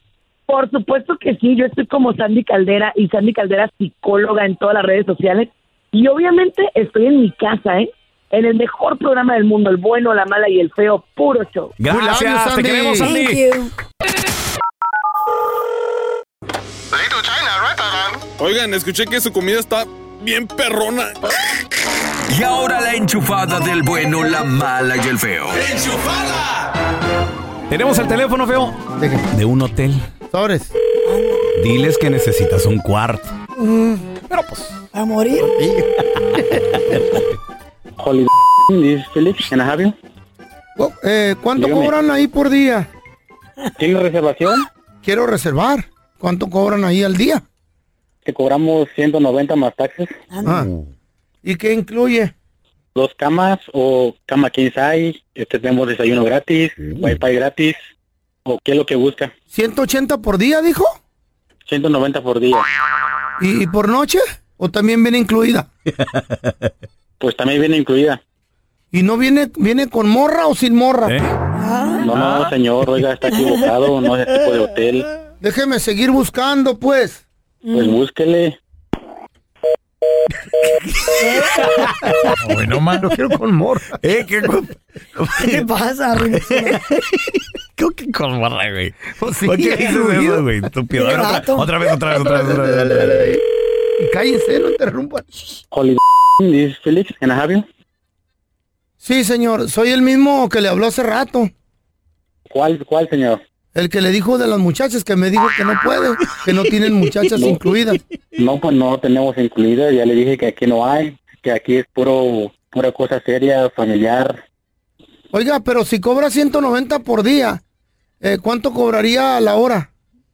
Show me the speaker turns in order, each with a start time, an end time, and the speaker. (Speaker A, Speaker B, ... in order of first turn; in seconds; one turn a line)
Speaker A: 0.5-11.8
Speaker B: 11.8-13.4
Speaker C: 11.9-13.1
Speaker D: 13.0-13.7
Speaker C: 16.9-18.2
Speaker E: 18.4-21.2
Speaker F: 22.3-25.6
Speaker E: 25.5-26.6
Speaker B: 27.7-28.8
Speaker C: 29.0-29.2
Speaker B: 29.3-30.1
Speaker C: 30.3-30.7
Speaker D: 31.1-31.4
Speaker B: 31.6-33.4
Speaker C: 33.6-34.0
Speaker B: 34.3-34.7
Speaker D: 34.9-35.7
Speaker G: 38.0-40.0
Speaker C: 40.8-42.9
Speaker G: 41.6-41.9
Speaker G: 43.8-44.7
Speaker C: 45.0-47.4
Speaker G: 48.2-50.1
Speaker D: 50.3-50.7
Speaker C: 50.4-50.7
Speaker C: 51.4-52.3
Speaker G: 53.0-57.8
Speaker G: 58.5-59.3
Speaker C: 59.5-61.0
Speaker G: 61.7-62.6
Speaker C: 63.4-65.7
Speaker G: 67.2-68.2
Speaker C: 68.9-71.2
Speaker B: 71.1-71.3
Speaker D: 71.6-72.1
Speaker G: 72.0-75.1
Speaker B: 72.2-72.5
Speaker D: 73.4-73.7
Speaker C: 75.4-77.2
Speaker D: 77.6-78.0
Speaker G: 77.7-78.6
Speaker D: 81.0-82.4
Speaker B: 81.6-83.2
Speaker C: 83.0-84.0
Speaker B: 84.0-85.7
Speaker D: 85.4-86.8
Speaker B: 86.4-86.8
Speaker B: 87.8-93.3
Speaker C: 89.2-90.5
Speaker D: 90.9-91.7
Speaker C: 92.0-93.4
Speaker C: 94.0-95.4
Speaker G: 95.7-97.7
Speaker C: 99.0-101.5
Speaker G: 102.5-103.4
Speaker C: 103.7-108.0
Speaker G: 108.4-114.4
Speaker C: 115.3-117.6
Speaker C: 118.2-119.9